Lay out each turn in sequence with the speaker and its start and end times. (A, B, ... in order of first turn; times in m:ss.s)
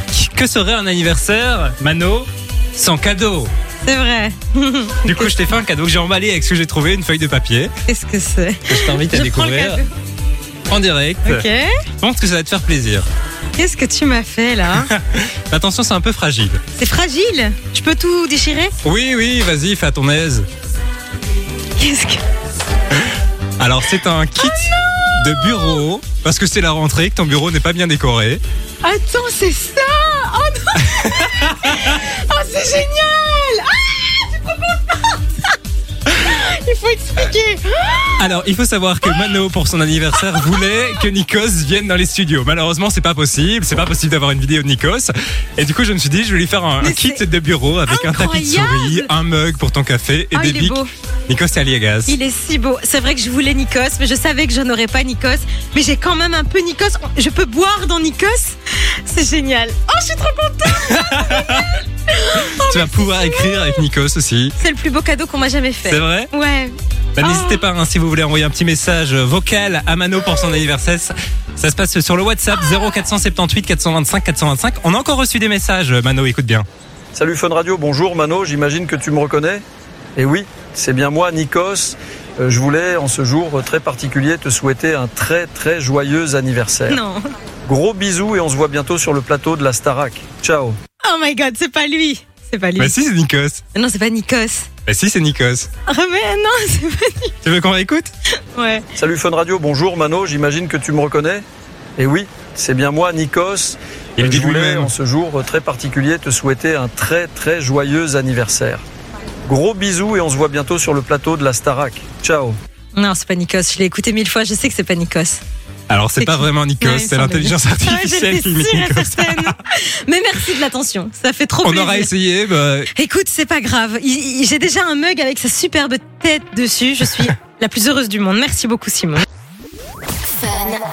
0:00.1-0:03.5 A
0:03.8-0:05.4 B
0:05.0-0:07.7 A
0:07.9-0:09.9 B
0:08.7-0:09.8 A
0:10.7-0:11.4 A
0:11.3-0:11.7 B
0:12.0-0:13.1 A
0:13.6-0:14.9 B
0:14.7-0:16.6 A
0:16.8-0:18.7 B
0:18.8-0:20.5 A
0:21.8-0:22.2 B
0:23.6-0:28.4 A
0:24.4-0:25.8 B
0:28.8-0:35.2 B
0:30.8-0:32.0 A
0:36.1-0:38.3 B
0:38.2-0:52.1 A
0:40.4-0:40.6 B
0:46.8-0:47.2 B
0:47.9-0:49.1 B
0:50.3-0:50.9 B
0:52.1-1:03.8 B
1:00.8-1:01.8 A
1:02.4-1:04.6 A
1:04.6-1:07.7 B
1:05.9-1:06.3 A
1:07.2-1:16.7 A
1:17.1-1:19.6 C
1:20.2-1:27.0 C
1:26.9-1:27.2 B
1:27.7-1:30.8 C
1:31.0-1:32.9 B
1:32.8-1:33.6 A
1:33.7-1:34.7 B
1:34.9-1:35.7 A
1:35.9-1:37.3 B
1:37.4-1:38.1 A
1:38.5-1:38.9 B
1:39.0-1:41.4 C
1:42.0-1:48.8 C
1:44.2-1:44.9 A
1:49.5-1:52.6 C
1:52.9-1:55.4 B
1:55.9-1:59.6 A
1:56.2-2:02.1 B
2:01.6-2:02.9 A
2:02.9-2:09.2 B